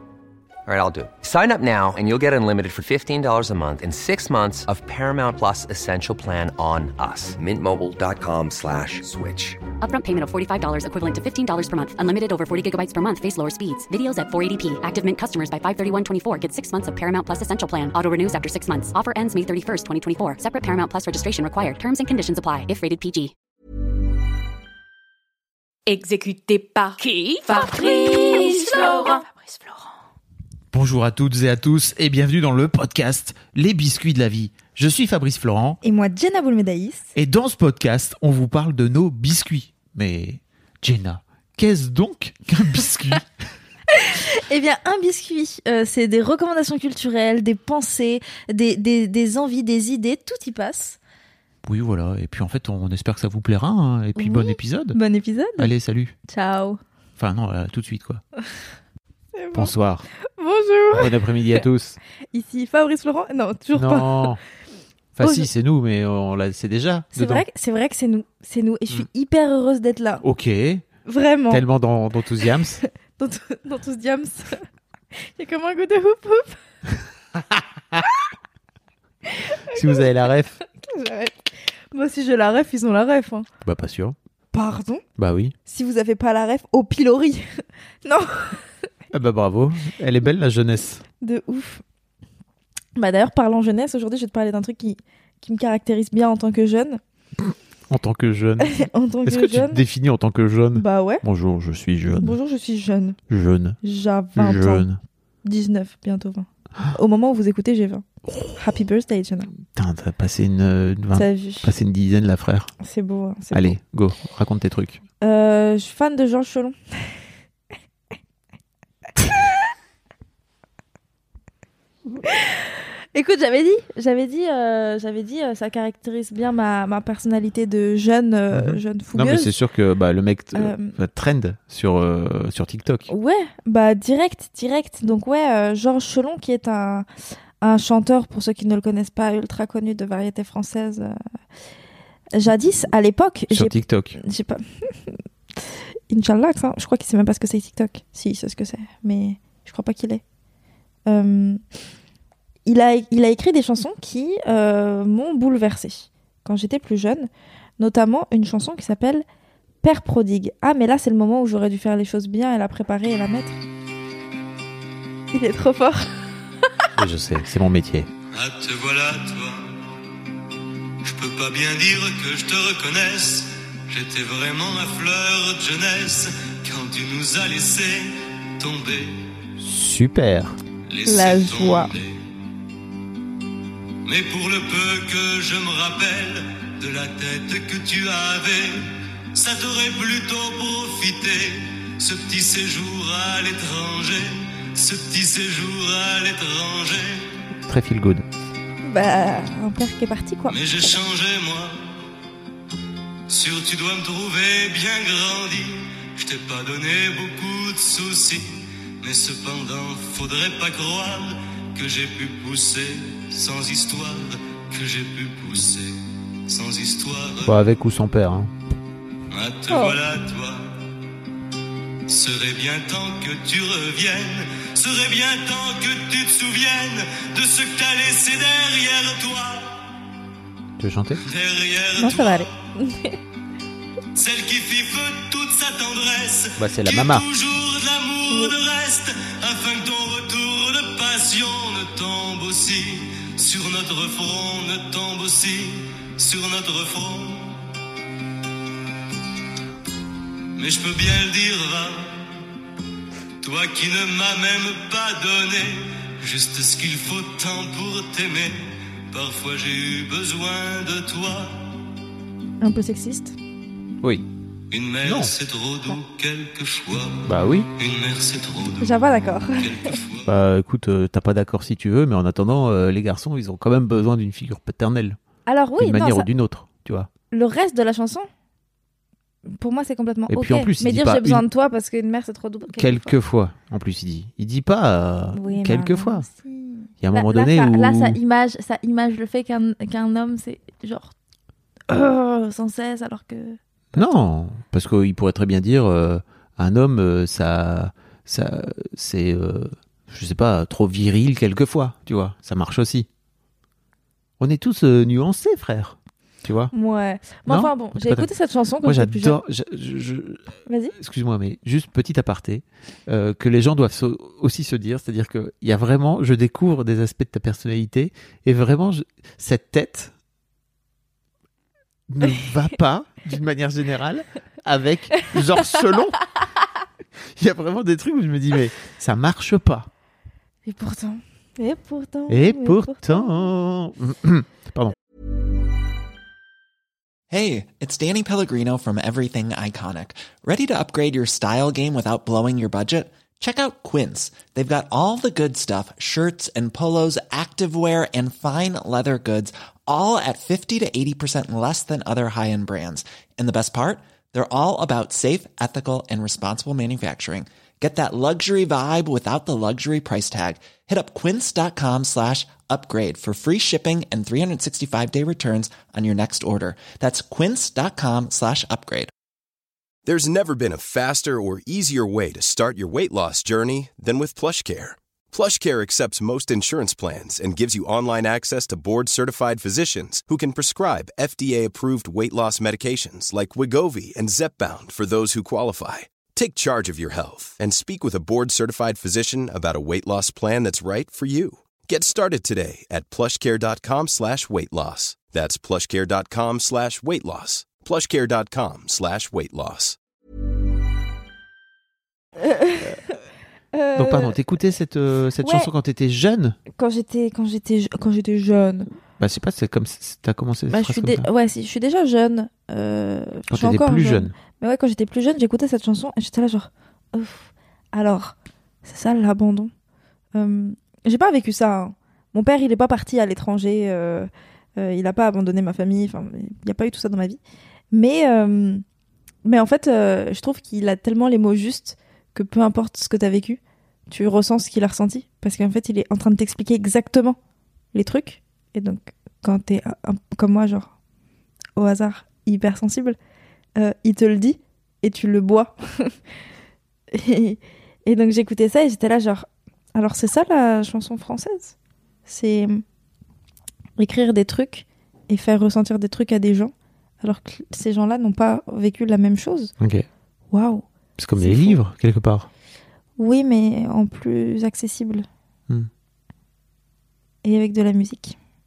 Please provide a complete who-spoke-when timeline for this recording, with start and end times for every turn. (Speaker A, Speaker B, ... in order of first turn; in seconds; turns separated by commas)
Speaker A: 0.7-9.6, Speaker B: 9.8-23.3, Speaker C: 25.9-29.5, Speaker D: 30.7-35.8, Speaker E: 35.8-37.1, Speaker D: 37.1-43.2, Speaker E: 44.0-51.0, Speaker D: 51.6-55.0, Speaker E: 54.1-55.7, Speaker D: 55.6-56.1, Speaker E: 56.3-56.8, Speaker D: 57.2-58.2, Speaker E: 59.3-59.7, Speaker D: 59.5-60.1, Speaker E: 60.4-61.6, Speaker D: 61.0-62.0, Speaker E: 62.3-64.3, Speaker D: 63.7-64.4, Speaker D: 65.2-67.4, Speaker E: 65.2-65.5, Speaker E: 67.1-70.2, Speaker D: 70.2-70.8, Speaker E: 71.0-71.6, Speaker D: 71.5-72.8, Speaker E: 72.8-74.6, Speaker E: 75.2-76.6, Speaker E: 79.4-80.0, Speaker D: 79.7-80.5, Speaker E: 80.7-83.5, Speaker D: 83.6-84.2, Speaker E: 84.5-85.0, Speaker D: 85.2-85.5, Speaker E: 85.7-87.4, Speaker E: 88.0-88.6, Speaker D: 89.1-91.0, Speaker E: 91.2-91.8, Speaker E: 92.9-97.0, Speaker D: 97.9-102.4, Speaker E: 98.6-99.8, Speaker E: 100.7-101.2, Speaker E: 102.2-103.2, Speaker D: 103.3-103.8, Speaker E: 103.8-104.9, Speaker D: 104.3-105.0, Speaker E: 105.4-108.0, Speaker E: 108.6-109.5, Speaker D: 109.7-112.7, Speaker E: 111.1-111.7, Speaker E: 112.8-113.8, Speaker D: 113.5-115.0, Speaker E: 115.2-117.1, Speaker E: 122.2-129.5, Speaker D: 128.5-133.1, Speaker E: 130.5-130.9, Speaker E: 133.1-137.1, Speaker E: 137.6-141.1, Speaker E: 142.3-145.2, Speaker D: 143.5-144.2, Speaker E: 146.1-150.2, Speaker E: 151.1-151.6, Speaker E: 152.6-159.2, Speaker E: 159.8-163.6, Speaker E: 165.3-166.2, Speaker D: 166.9-168.1, Speaker F: 168.3-169.6, Speaker F: 171.0-179.3, Speaker D: 179.6-180.6, Speaker F: 180.9-182.2, Speaker E: 181.1-181.9, Speaker F: 184.0-188.8, Speaker F: 189.3-197.3, Speaker D: 197.7-198.2, Speaker E: 198.8-200.6, Speaker F: 200.5-201.8, Speaker F: 203.3-215.9, Speaker F: 216.5-217.5, Speaker D: 217.4-218.5, Speaker F: 219.3-220.7, Speaker E: 219.7-220.0, Speaker F: 222.1-229.8, Speaker D: 230.8-231.2, Speaker F: 231.2-232.5, Speaker E: 232.0-233.2, Speaker F: 234.1-247.6, Speaker D: 236.6-237.2, Speaker F: 250.5-252.2, Speaker F: 253.4-261.8, Speaker E: 262.6-263.4, Speaker D: 264.0-264.3, Speaker F: 264.7-270.3, Speaker D: 265.0-265.3, Speaker D: 267.2-267.7, Speaker E: 268.8-269.9, Speaker D: 270.2-275.2, Speaker E: 275.4-276.3, Speaker D: 275.8-277.1, Speaker E: 277.3-278.3, Speaker E: 279.5-283.1, Speaker D: 280.3-281.4, Speaker D: 282.7-286.3, Speaker E: 285.3-291.1, Speaker D: 287.0-288.2, Speaker E: 291.9-294.1, Speaker D: 293.9-303.1, Speaker D: 304.4-306.7, Speaker E: 306.7-309.4, Speaker D: 307.5-308.3, Speaker D: 308.8-320.1, Speaker E: 310.7-310.9, Speaker D: 322.1-326.2, Speaker D: 327.4-329.9, Speaker E: 330.6-333.5, Speaker D: 332.3-334.9, Speaker G: 337.3-369.1, Speaker H: 370.1-400.0, Speaker E: 402.4-403.2, Speaker E: 403.7-404.4, Speaker D: 403.9-406.6, Speaker E: 405.4-405.7, Speaker E: 406.8-408.9, Speaker D: 409.2-411.3, Speaker E: 410.7-419.7, Speaker D: 413.5-414.3, Speaker E: 420.3-427.4, Speaker E: 427.9-428.8, Speaker E: 429.4-437.4, Speaker E: 437.9-440.9, Speaker E: 441.8-443.2, Speaker E: 443.8-446.1, Speaker E: 447.1-451.7, Speaker E: 452.3-452.8, Speaker E: 454.0-459.7, Speaker D: 459.8-460.1, Speaker E: 460.5-460.8, Speaker D: 461.2-462.5, Speaker E: 461.4-461.8, Speaker E: 463.2-465.2, Speaker E: 467.4-468.4